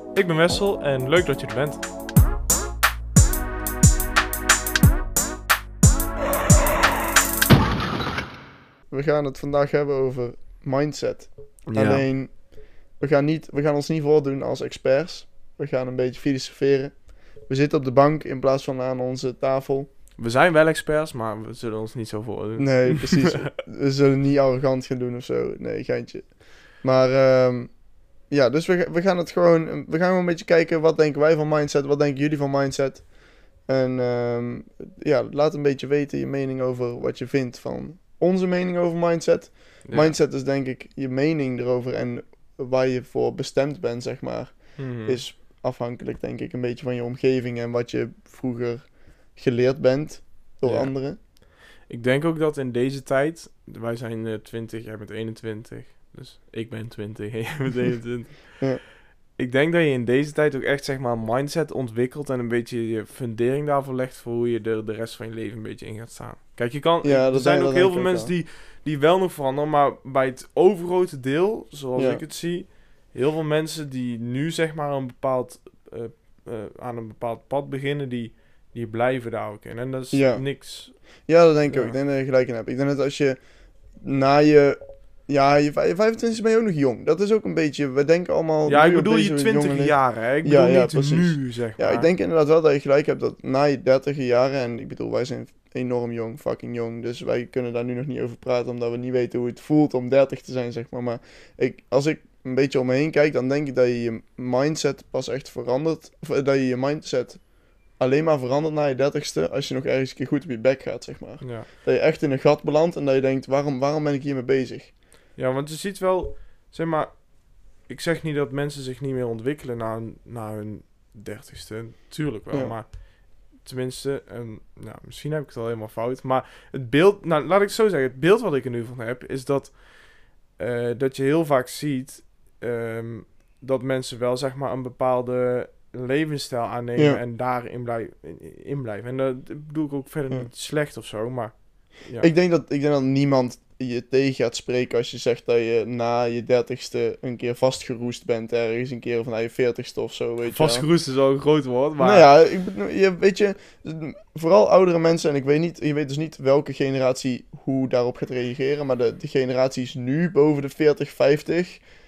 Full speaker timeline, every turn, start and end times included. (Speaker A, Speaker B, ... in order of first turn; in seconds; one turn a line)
Speaker A: 0.1-1.8
Speaker B: 8.9-19.9
Speaker A: 11.7-12.0
Speaker A: 20.2-23.5
Speaker B: 22.6-51.2
Speaker A: 39.8-40.1
Speaker A: 44.8-45.2
Speaker A: 50.6-82.0
Speaker B: 67.0-68.3
Speaker B: 72.0-72.2
Speaker B: 80.1-83.4
Speaker B: 84.0-107.4
Speaker A: 88.7-92.1
Speaker B: 108.0-114.9
Speaker A: 111.4-111.7
Speaker A: 115.3-142.3
Speaker B: 142.2-150.9
Speaker A: 150.5-152.3
Speaker B: 152.0-161.8